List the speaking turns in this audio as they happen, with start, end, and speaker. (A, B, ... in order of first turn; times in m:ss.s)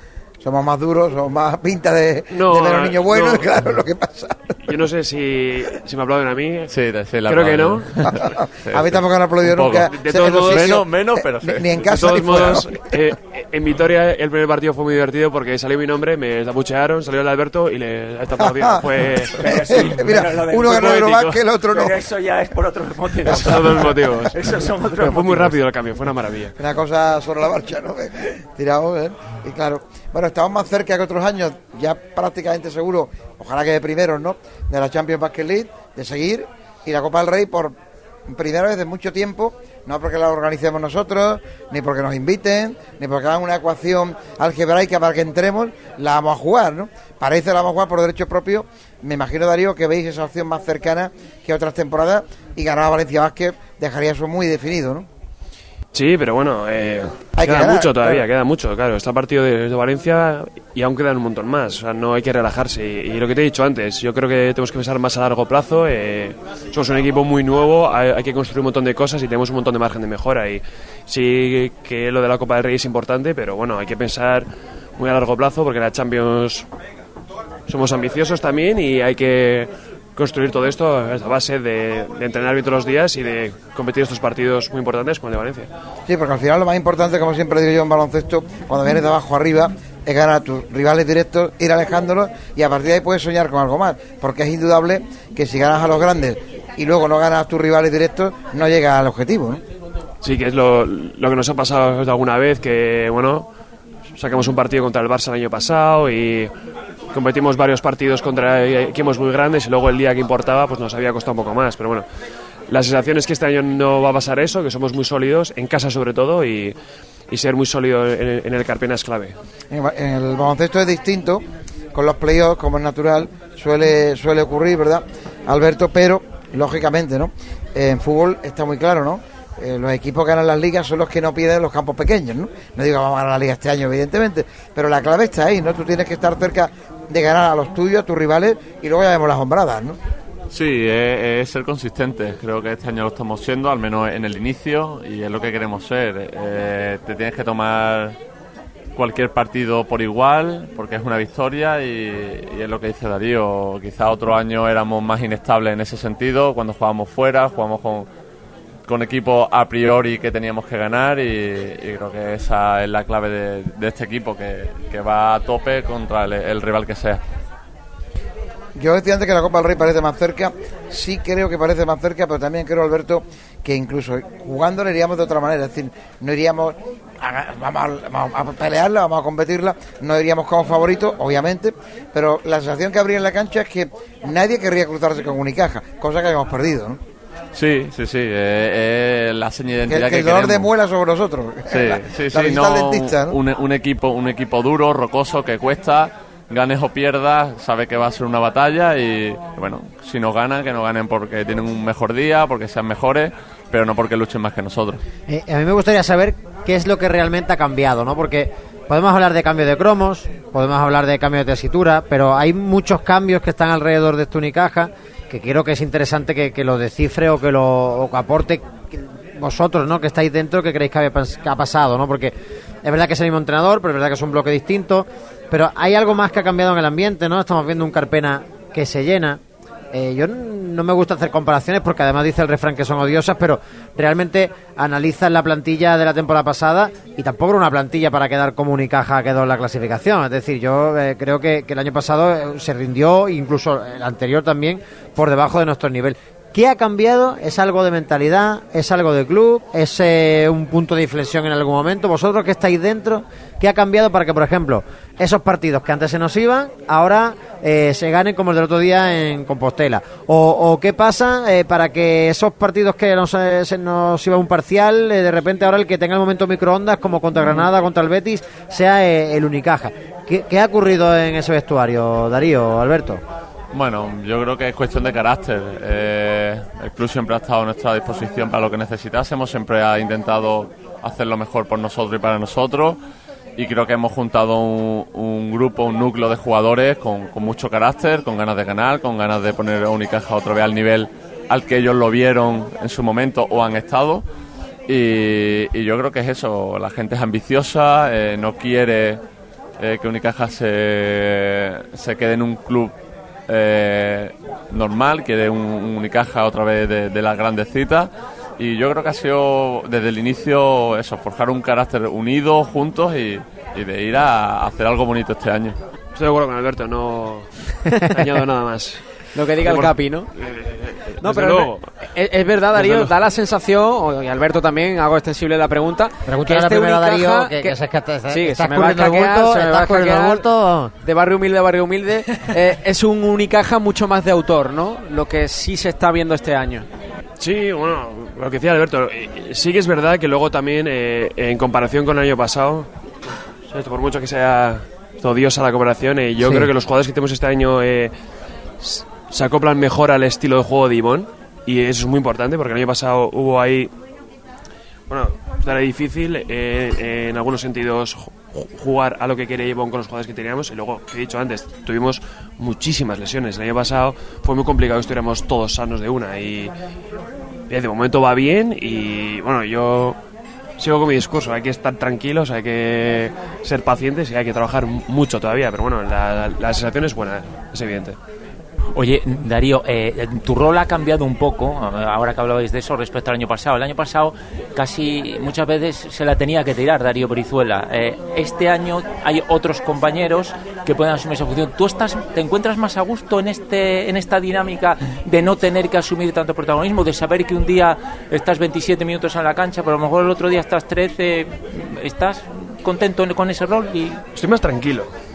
0:00.4-0:04.7 A
0:02.3-0:03.5 B
0:04.6-0:06.7 B
0:06.7-0:12.4 C
0:07.3-0:08.0 B
0:08.1-0:12.8 A
0:09.9-0:10.8 B
0:11.9-0:20.1 B
0:18.4-0:18.8 A
0:19.4-0:22.0 A
0:19.4-0:25.6 D
0:23.2-0:26.6 B
0:23.3-0:23.9 A
0:26.6-0:37.8 A
0:38.3-0:55.1 A
0:55.9-1:14.5 B
0:57.4-0:58.2 A
1:15.0-1:16.7 B
1:17.7-1:25.7 B
1:26.1-1:39.6 A
1:40.2-1:43.5 B
1:44.2-1:46.5 B
1:47.1-1:52.0 B
1:52.7-1:56.8 B
1:57.3-1:59.4 B
1:59.7-2:20.0 A
2:20.5-2:28.2 C
2:29.0-2:38.1 C
2:38.9-2:47.2 C
2:48.8-3:07.0 A
3:07.5-3:10.7 C
3:09.9-3:13.4 A
3:11.7-3:25.0 C
3:25.3-3:49.4 E
3:49.9-4:33.2 E
4:33.7-4:43.0 C
4:43.6-4:54.2 C
4:54.9-4:59.2 C
4:59.8-5:02.9 C
5:03.5-5:15.8 C
5:16.2-5:19.0 B
5:19.4-5:20.3 F
5:19.6-5:22.0 B
5:21.2-5:30.5 F
5:22.7-5:23.1 B
5:26.3-5:30.9 E
5:31.0-5:36.9 F
5:37.4-5:42.9 B
5:43.7-5:48.1 B
5:46.4-5:46.7 E
5:48.8-5:53.9 B
5:55.1-6:06.7 B
6:07.7-6:10.2 B
6:10.8-6:18.2 B
6:19.0-6:44.2 D
6:44.4-6:45.1 B